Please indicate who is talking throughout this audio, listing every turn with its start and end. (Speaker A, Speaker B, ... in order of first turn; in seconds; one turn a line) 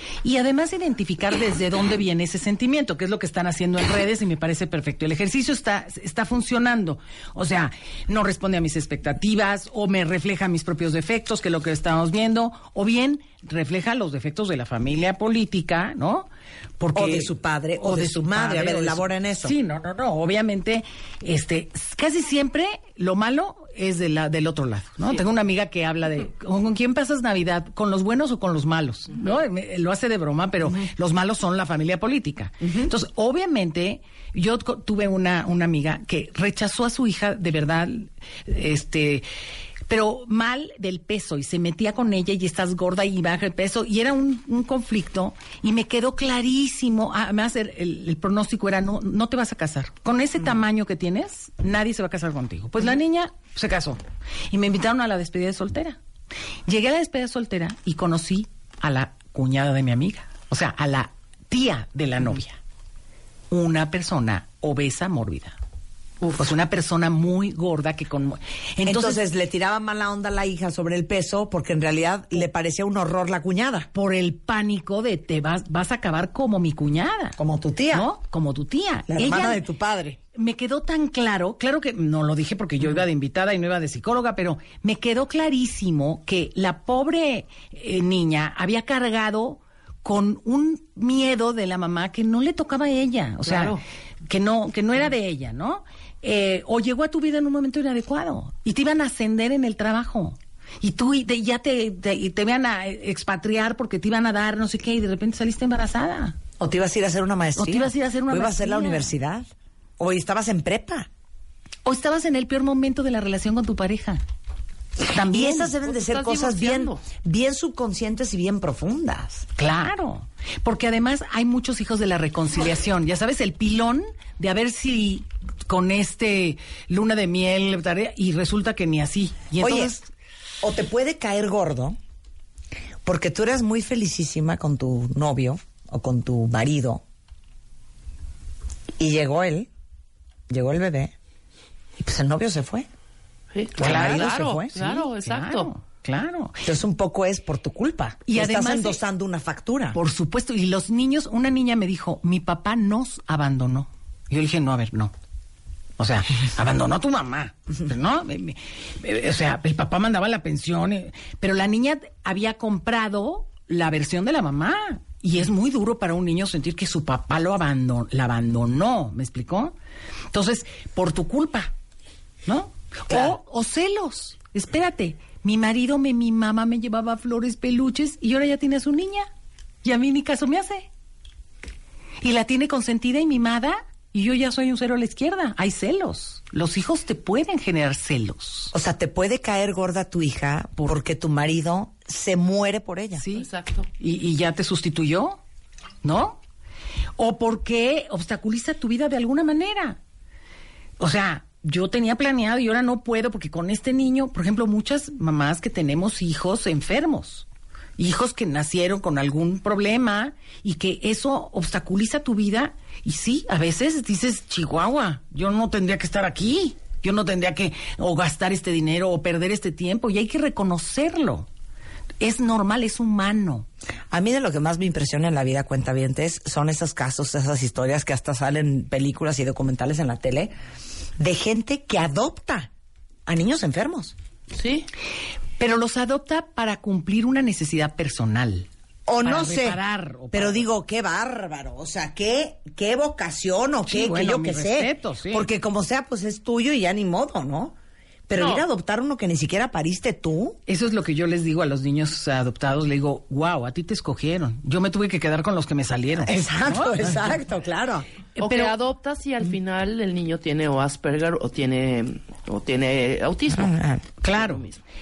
Speaker A: 0.2-16.3
Speaker A: 16.8-39.2
Speaker B: 16.9-19.6
Speaker A: 39.9-56.0
Speaker A: 56.7-62.6
Speaker A: 63.5-65.6
Speaker C: 66.2-66.5
Speaker A: 66.4-69.2
Speaker B: 68.8-73.9
Speaker A: 73.9-77.3
Speaker B: 77.4-78.1
Speaker A: 77.9-79.6
Speaker B: 79.1-80.2
Speaker A: 80.3-106.4
Speaker C: 93.4-93.8
Speaker B: 106.6-109.5
Speaker A: 107.5-109.1
Speaker B: 110.0-111.1
Speaker A: 111.8-114.2
Speaker A: 115.1-115.8
Speaker B: 115.2-119.5
Speaker C: 115.8-117.0
Speaker A: 119.6-130.0
Speaker B: 129.6-130.0
Speaker B: 130.6-132.0
Speaker B: 133.0-137.0
Speaker B: 139.0-139.7
Speaker B: 140.5-141.1
Speaker B: 142.0-142.9
Speaker C: 143.5-145.7
Speaker B: 143.8-144.7
Speaker A: 143.8-146.6
Speaker B: 146.6-150.0
Speaker A: 148.2-149.0
Speaker A: 149.9-155.1
Speaker A: 156.0-169.7
Speaker A: 170.3-171.7
Speaker A: 172.4-179.3
Speaker A: 179.8-180.9
Speaker A: 182.2-188.7
Speaker B: 188.7-193.2
Speaker A: 193.2-193.5
Speaker C: 193.3-193.9
Speaker A: 194.0-195.4
Speaker A: 196.0-196.4
Speaker A: 197.2-200.0
Speaker A: 201.0-207.4
Speaker A: 208.0-221.5
Speaker A: 222.2-223.7
Speaker B: 224.1-230.5
Speaker B: 231.2-232.7
Speaker B: 233.3-234.2
Speaker C: 234.5-234.9
Speaker A: 235.6-238.7
Speaker B: 239.1-239.8
Speaker A: 239.2-240.7
Speaker B: 240.3-247.7
Speaker A: 243.8-245.5
Speaker B: 248.3-250.6
Speaker C: 248.4-248.6
Speaker A: 250.7-257.3
Speaker B: 256.2-258.1
Speaker A: 258.4-258.8
Speaker C: 258.4-264.8
Speaker B: 263.5-264.1
Speaker A: 264.2-264.6